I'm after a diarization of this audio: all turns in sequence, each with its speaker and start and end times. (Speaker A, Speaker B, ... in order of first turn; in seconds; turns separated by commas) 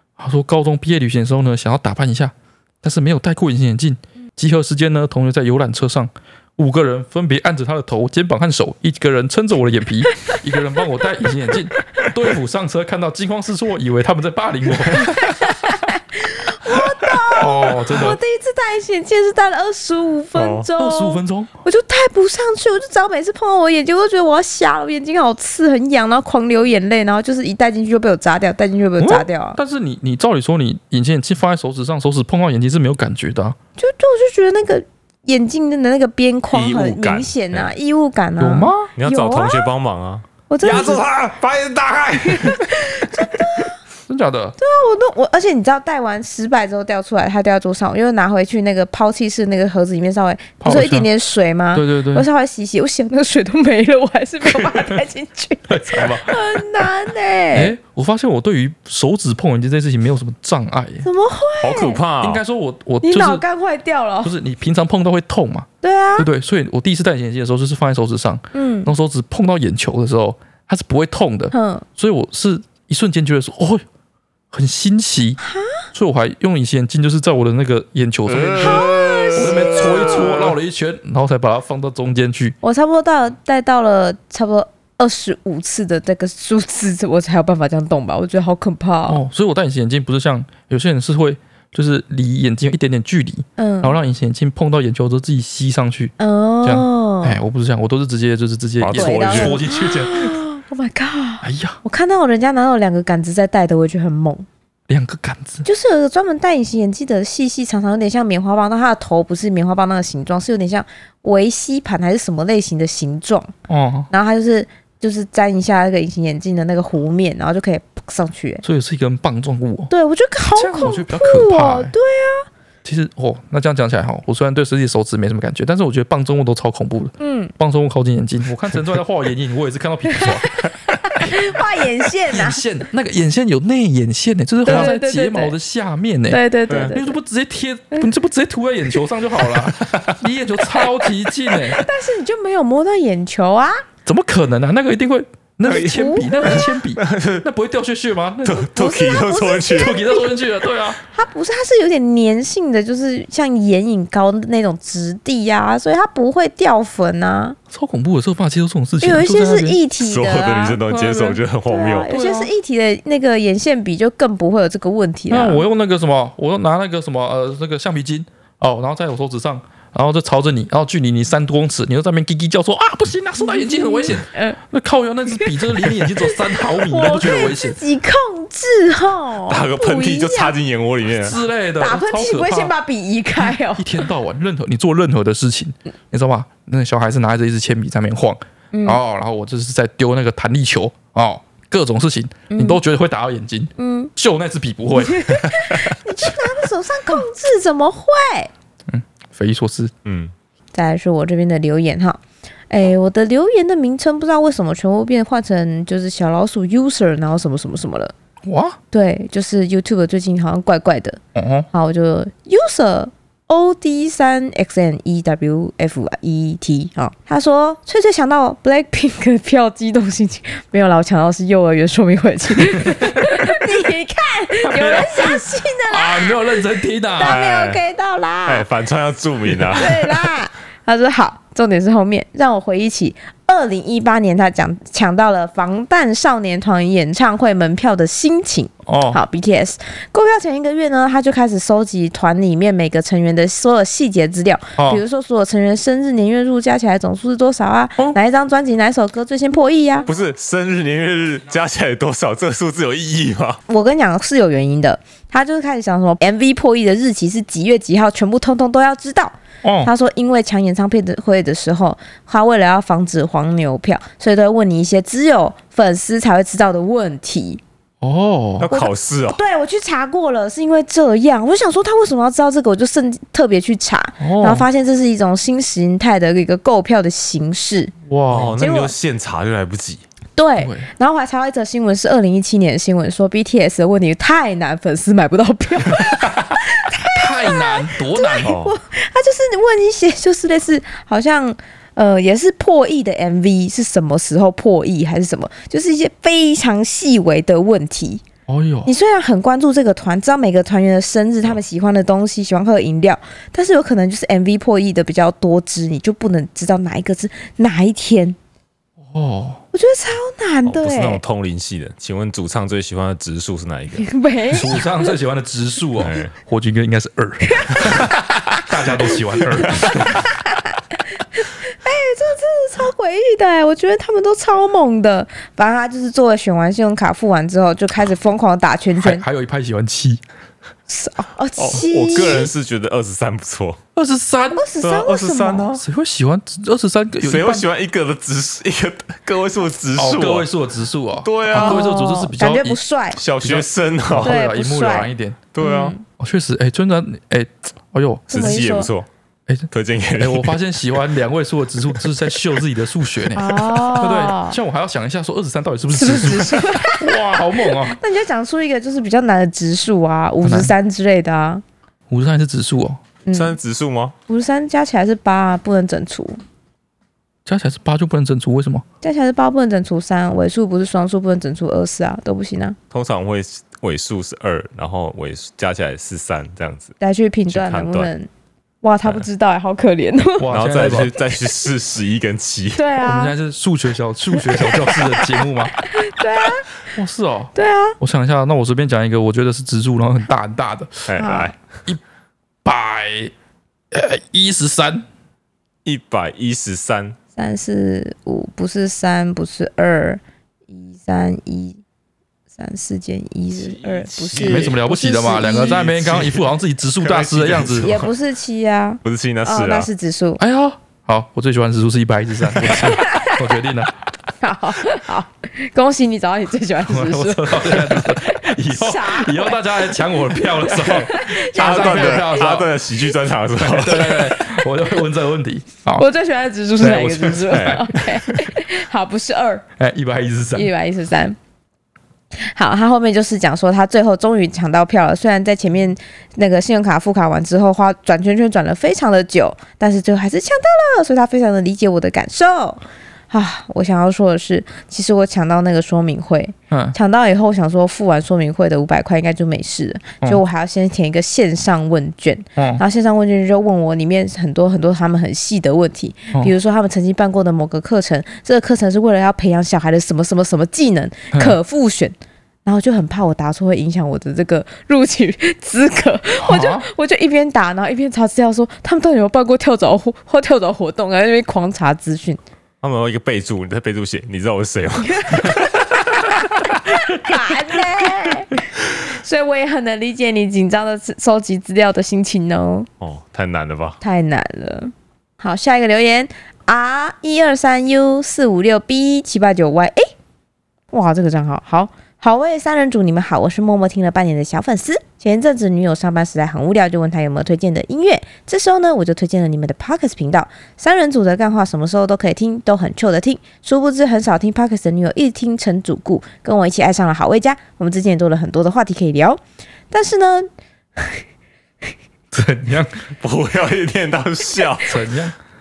Speaker A: 0.2-15.5, Speaker B: 14.9-29.6, Speaker A: 17.4-18.2, Speaker C: 20.4-20.7, Speaker A: 20.8-21.5, Speaker A: 29.0-33.6, Speaker B: 33.8-39.7, Speaker C: 36.5-37.7, Speaker A: 38.4-38.9, Speaker C: 39.0-43.3, Speaker B: 40.5-41.0, Speaker B: 42.2-43.8, Speaker A: 44.1-44.6, Speaker B: 44.6-57.8, Speaker A: 50.6-51.1, Speaker A: 51.7-52.3, Speaker A: 54.4-55.0, Speaker A: 55.7-56.9, Speaker A: 57.5-61.0, Speaker B: 61.0-62.0, Speaker C: 61.6-62.4, Speaker A: 62.2-63.4, Speaker B: 63.0-64.3, Speaker A: 64.2-73.8, Speaker B: 65.8-66.3, Speaker B: 68.5-68.9, Speaker B: 71.5-71.8, Speaker A: 74.5-75.4, Speaker B: 75.4-75.8, Speaker A: 75.9-82.6, Speaker C: 78.3-80.5, Speaker B: 78.6-80.3, Speaker B: 82.6-89.2, Speaker A: 89.1-100.4, Speaker B: 93.6-94.0, Speaker B: 96.2-97.4, Speaker C: 98.8-99.6, Speaker B: 99.0-104.5, Speaker A: 101.4-101.8, Speaker A: 104.9-105.7, Speaker B: 105.7-113.5, Speaker A: 113.7-114.1, Speaker B: 114.1-118.6, Speaker A: 118.6-119.9, Speaker B: 119.9-122.5, Speaker A: 120.5-121.9, Speaker A: 122.8-130.7, Speaker B: 127.2-127.5, Speaker B: 130.1-132.6, Speaker A: 132.3-141.8, Speaker B: 134.7-135.6, Speaker B: 136.3-137.2, Speaker C: 136.7-136.9, Speaker C: 139.6-140.2, Speaker B: 141.7-143.8, Speaker A: 144.1-148.7, Speaker C: 145.7-147.4, Speaker B: 145.7-146.7, Speaker C: 148.4-150.0, Speaker B: 148.7-150.3, Speaker A: 149.7-151.0, Speaker B: 151.1-157.6, Speaker A: 157.7-159.8, Speaker B: 159.0-165.7, Speaker C: 160.0-162.1, Speaker A: 162.1-162.5, Speaker A: 165.3-177.8, Speaker B: 173.4-174.6, Speaker B: 176.2-180.6, Speaker C: 179.5-181.4, Speaker A: 181.2-182.7, Speaker B: 181.8-184.1, Speaker A: 183.4-195.5, Speaker B: 188.7-189.0, Speaker B: 192.5-192.8, Speaker B: 193.8-194.1, Speaker B: 195.0-198.5, Speaker A: 198.9-199.9, Speaker C: 200.1-200.3, Speaker B: 200.7-208.1, Speaker A: 208.4-208.8, Speaker B: 208.9-211.2, Speaker A: 211.3-211.7, Speaker B: 211.7-226.4, Speaker A: 222.7-223.6, Speaker A: 224.6-227.4, Speaker B: 227.2-228.7, Speaker C: 227.2-227.8, Speaker C: 228.5-230.1, Speaker B: 229.7-250.1, Speaker A: 238.9-239.2, Speaker A: 244.8-245.0, Speaker C: 250.1-253.6, Speaker B: 253.7-267.6, Speaker A: 259.6-259.9, Speaker A: 268.0-268.7, Speaker C: 268.6-269.4, Speaker B: 268.7-277.9, Speaker A: 274.2-274.7, Speaker A: 278.1-278.6, Speaker C: 278.3-280.0, Speaker B: 278.6-278.9, Speaker B: 280.4-298.2, Speaker A: 280.6-280.9, Speaker A: 287.1-288.5, Speaker C: 288.4-288.8, Speaker A: 298.5-298.9, Speaker B: 298.9-308.4, Speaker A: 309.1-309.6, Speaker B: 309.7-311.2, Speaker C: 310.7-314.1, Speaker B: 314.0-315.1, Speaker A: 314.5-320.3, Speaker C: 316.0-316.3, Speaker B: 317.5-320.8, Speaker C: 317.8-318.6, Speaker C: 319.7-319.9, Speaker B: 321.3-329.2, Speaker A: 329.0-330.2, Speaker B: 330.9-332.5, Speaker C: 331.6-333.8, Speaker A: 334.0-334.7, Speaker B: 334.6-335.7, Speaker C: 334.8-335.8, Speaker A: 335.7-337.7, Speaker C: 337.2-340.5, Speaker A: 340.0-342.8, Speaker C: 341.2-341.9, Speaker B: 341.5-343.2, Speaker C: 343.2-344.3, Speaker A: 343.4-345.4, Speaker B: 344.2-346.0, Speaker C: 345.5-345.9, Speaker A: 346.2-348.6, Speaker B: 348.3-348.9, Speaker C: 348.3-349.1, Speaker A: 349.5-358.0, Speaker C: 349.7-350.6, Speaker B: 353.3-354.6, Speaker B: 355.9-361.6, Speaker A: 360.4-360.7, Speaker A: 362.1-363.0, Speaker B: 363.3-363.6, Speaker C: 363.3-364.1, Speaker B: 364.3-366.4, Speaker A: 367.5-368.8, Speaker B: 369.0-372.8, Speaker C: 372.9-376.9, Speaker B: 377.0-378.3, Speaker C: 377.5-378.1, Speaker B: 378.8-381.0, Speaker A: 380.4-381.1, Speaker C: 380.5-382.8, Speaker B: 382.8-383.3, Speaker A: 383.0-385.8, Speaker B: 384.4-386.7, Speaker A: 386.9-391.1, Speaker B: 387.6-388.0, Speaker C: 391.1-391.6, Speaker B: 391.2-391.5, Speaker A: 392.6-393.3, Speaker A: 393.9-395.1, Speaker C: 395.9-397.2, Speaker B: 397.4-401.8, Speaker B: 402.6-405.9, Speaker C: 403.6-404.8, Speaker A: 404.4-408.0, Speaker C: 405.4-406.4, Speaker C: 407.0-408.1, Speaker B: 407.8-410.4, Speaker C: 409.0-409.9, Speaker A: 410.4-413.9, Speaker C: 412.6-412.9, Speaker B: 412.8-413.4, Speaker B: 414.4-422.4, Speaker A: 416.8-422.7, Speaker C: 420.8-424.3, Speaker A: 423.6-426.1, Speaker B: 426.0-429.6, Speaker A: 426.8-427.9, Speaker C: 427.5-428.5, Speaker A: 429.8-430.7, Speaker B: 430.5-431.4, Speaker B: 432.4-472.4, Speaker A: 452.6-452.8, Speaker A: 466.4-466.9, Speaker C: 472.8-476.3, Speaker B: 475.1-482.9, Speaker C: 483.0-484.0, Speaker B: 484.0-490.1, Speaker B: 490.9-509.4, Speaker B: 509.9-511.2, Speaker A: 512.3-512.9, Speaker C: 513.2-515.0, Speaker A: 514.9-515.3